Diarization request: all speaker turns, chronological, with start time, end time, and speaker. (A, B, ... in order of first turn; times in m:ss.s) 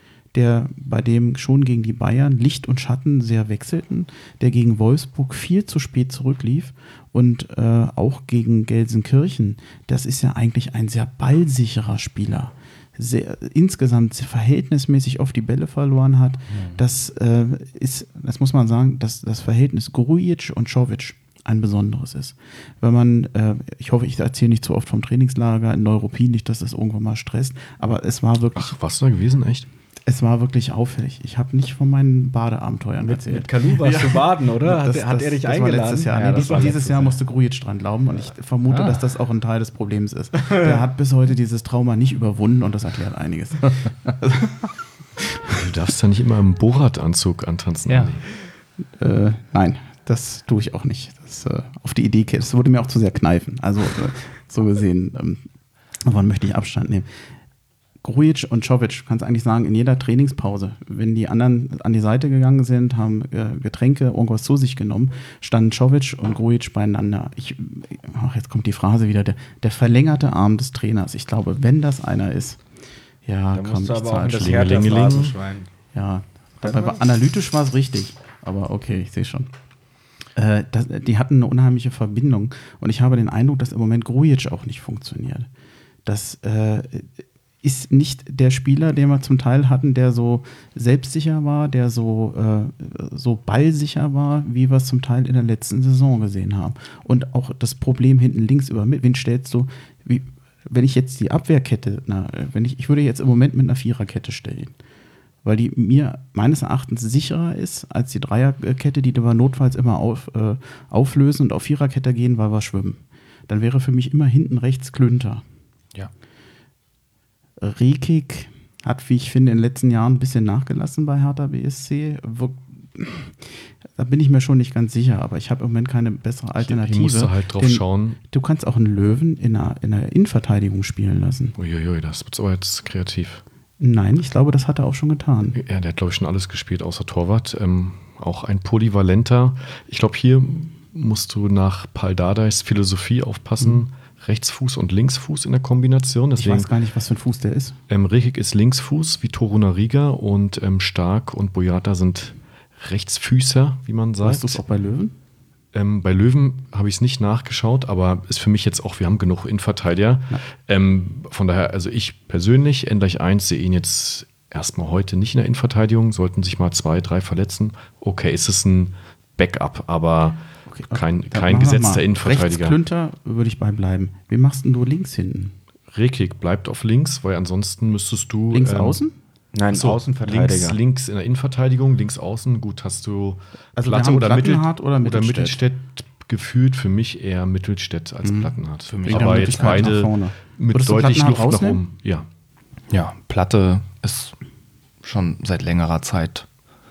0:00.3-0:28.7 A
0:16.5-0:16.8 B
0:28.6-0:29.7 C
0:30.0-0:45.6 A
0:33.0-0:37.2 D
0:36.1-0:36.8 B
0:38.7-0:39.0 B
0:45.5-0:48.3 C
0:47.9-0:48.1 B
0:49.0-0:55.4 A
0:56.0-0:57.1 A
0:58.0-1:12.6 A
1:13.2-1:14.7 A
1:13.5-1:15.7 D
1:14.3-1:15.3 C
1:15.9-1:19.5 A
1:16.6-1:16.9 D
1:20.4-1:25.5 A
1:26.0-1:44.7 A
1:45.4-1:55.4 A
1:57.6-2:11.6 A
2:06.6-2:08.2 C
2:11.6-2:13.4 C
2:13.8-2:15.6 A
2:15.6-2:26.7 C
2:26.4-2:27.8 A
2:27.9-2:34.6 C
2:34.2-2:35.1 A
2:35.7-2:52.8 C
2:50.7-2:55.5 A
2:55.9-2:59.0 C
2:58.5-2:59.1 A
2:59.5-3:00.8 D
2:59.7-3:12.3 C
3:03.8-3:05.6 A
3:08.2-3:08.5 A
3:08.9-3:09.9 B
3:09.0-3:11.8 A
3:12.9-3:14.3 B
3:15.0-3:16.4 B